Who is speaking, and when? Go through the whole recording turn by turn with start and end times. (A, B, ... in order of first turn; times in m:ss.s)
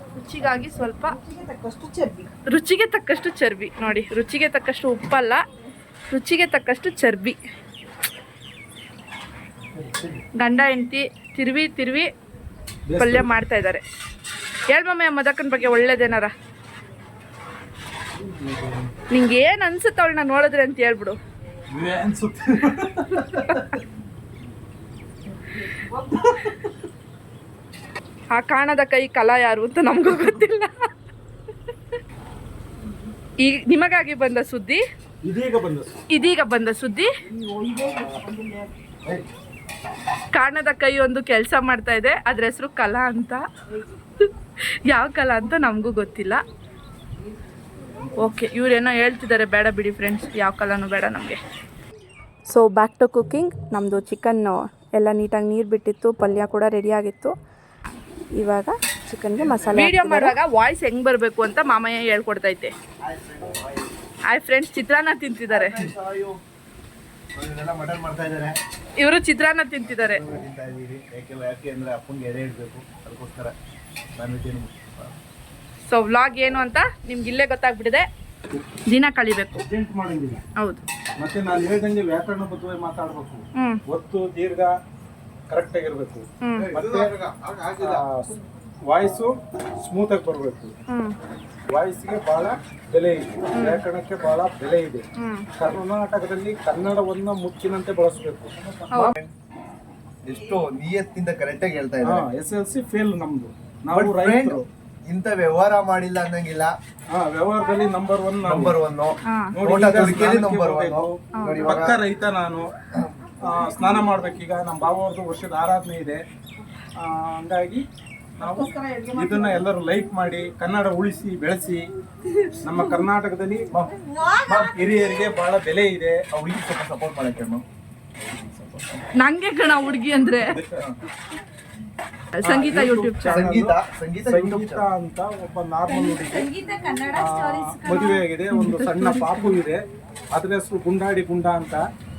0:00.2-0:01.2 A
0:01.1-0:02.4 B
0:02.4-0:05.4 A
0:06.1-0:07.4 A
0:09.8-0:10.2 C
0:10.4-0:12.1 A
0:12.9-0:13.3 C
0:13.0-0:13.8 A
0:14.7-0:16.3 A
0:18.2-0:18.9 C
0:19.1-0:21.2 A
0:21.7-0:23.8 C
0:26.2-0:26.6 C
0:28.3-0:30.7 A
0:33.4-0:34.8 A
0:35.2-0:36.0 C
0:36.1-0:37.1 A
0:37.2-0:38.7 B
0:40.3-0:43.4 A
0:44.8-0:46.4 A
0:48.2-0:51.4 A
0:52.5-0:57.3 D
0:58.4-1:00.4 D
0:59.4-0:59.8 E
0:59.7-1:02.7 A
1:03.0-1:04.0 E
1:04.3-1:05.8 A
1:05.5-1:06.4 E
1:07.3-1:08.6 E
1:09.0-1:10.2 A
1:09.8-1:13.5 E
1:14.2-1:15.2 E
1:15.8-1:18.1 A
1:18.9-1:19.6 A
1:19.6-1:20.4 C
1:21.2-1:24.7 C
1:25.5-1:27.1 C
1:26.4-1:26.7 A
1:26.6-1:28.0 E
1:27.8-1:30.7 C
1:30.9-1:31.2 A
1:31.7-1:35.0 C
1:33.5-1:33.8 A
1:35.2-1:35.5 A
1:35.6-1:38.5 C
1:38.9-1:39.3 E
1:40.2-1:42.2 E
1:42.0-1:44.6 C
1:43.9-1:46.7 E
1:47.1-1:48.8 C
1:48.4-1:52.0 E
1:49.3-1:49.5 A
1:49.6-1:52.7 C
1:51.3-1:51.7 A
1:52.9-1:53.3 E
1:53.4-1:56.2 C
1:57.0-1:57.8 C
1:58.4-2:01.9 C
1:58.4-1:59.6 B
2:02.6-2:03.7 C
2:04.4-2:04.8 E
2:04.5-2:06.2 C
2:06.3-2:07.6 E
2:08.2-2:09.0 E
2:09.2-2:10.6 A
2:10.4-2:10.8 C
2:12.4-2:13.4 A
2:12.4-2:14.8 E
2:12.6-2:13.8 C
2:14.3-2:16.5 C
2:15.9-2:19.5 A
2:17.1-2:19.8 C
2:20.3-2:21.8 C